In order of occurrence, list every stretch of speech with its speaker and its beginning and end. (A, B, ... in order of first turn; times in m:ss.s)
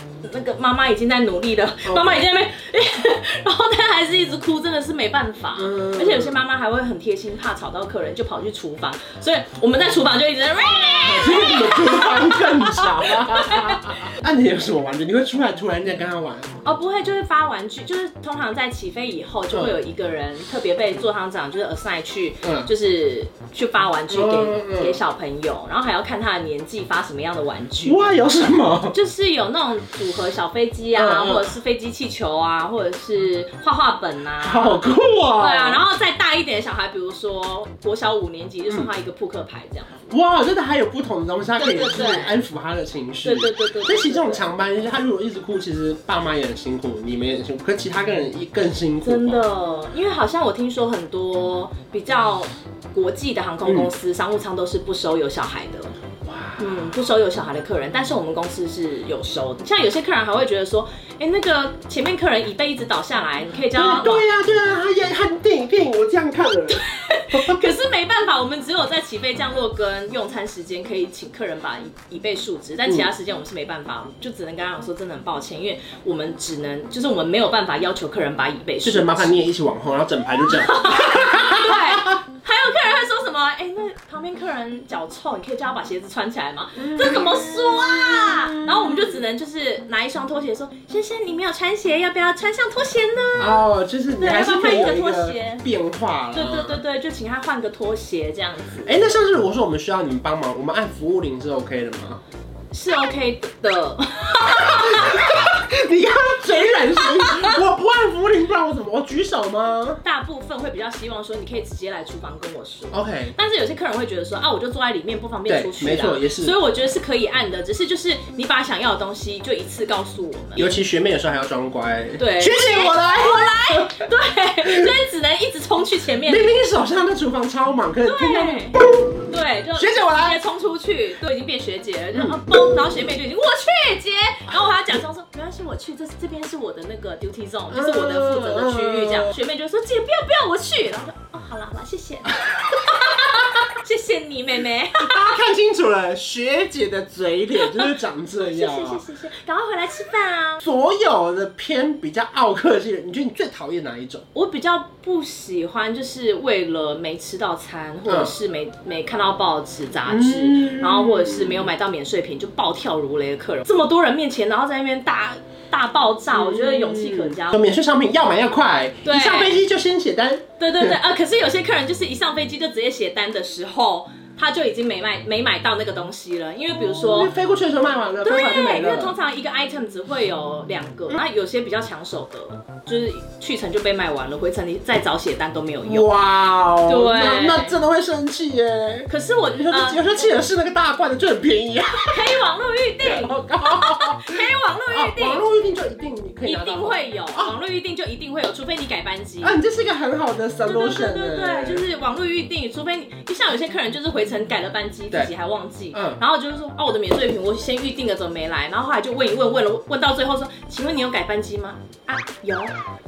0:00.2-0:14.1 A
0:01.8-0:02.2 B
0:05.6-0:06.4 B
0:11.0-0:16.5 B
0:16.6-0:28.1 A
0:19.5-0:19.8 B
0:22.4-0:22.7 B
0:24.1-0:25.0 B
0:27.8-0:29.0 B
0:28.9-0:40.1 A
0:30.9-0:31.5 B
0:34.4-0:35.8 B
0:40.1-0:49.4 B
0:41.6-0:42.4 A
0:43.2-0:44.4 A
0:49.0-0:56.0 A
0:53.6-0:53.9 B
0:56.2-0:57.0 B
0:56.6-1:04.2 A
1:03.7-1:07.6 B
1:06.7-1:19.3 A
1:18.8-1:22.1 B
1:20.5-1:33.6 A
1:26.8-1:29.2 B
1:33.4-1:36.8 B
1:34.2-1:35.6 A
1:36.3-1:39.0 A
1:38.8-1:42.2 B
1:42.7-1:45.3 A
1:44.4-1:50.0 B
1:46.9-1:47.6 A
1:50.0-2:00.8 A
1:52.9-1:53.3 B
1:55.5-1:56.6 B
2:00.6-2:04.1 B
2:02.2-2:06.5 A
2:04.6-2:05.0 B
2:06.2-2:09.1 B
2:08.0-2:25.4 A
2:09.7-2:10.4 B
2:12.1-2:12.4 B
2:17.7-2:19.3 B
2:25.0-2:29.0 B
2:27.6-2:30.6 A
2:30.6-2:34.2 B
2:34.3-2:47.6 A
2:38.0-2:38.3 B
2:40.0-2:41.7 B
2:46.3-2:51.0 B
2:49.0-2:49.6 A
2:50.6-2:57.3 A
2:56.7-2:59.1 B
2:58.2-3:06.2 A
3:05.8-3:12.4 B
3:06.8-3:07.8 A
3:09.1-3:10.2 A
3:12.0-3:15.4 A
3:13.0-3:17.6 B
3:16.4-3:19.6 A
3:19.4-3:21.8 B
3:20.6-3:32.7 A
3:25.9-3:26.2 B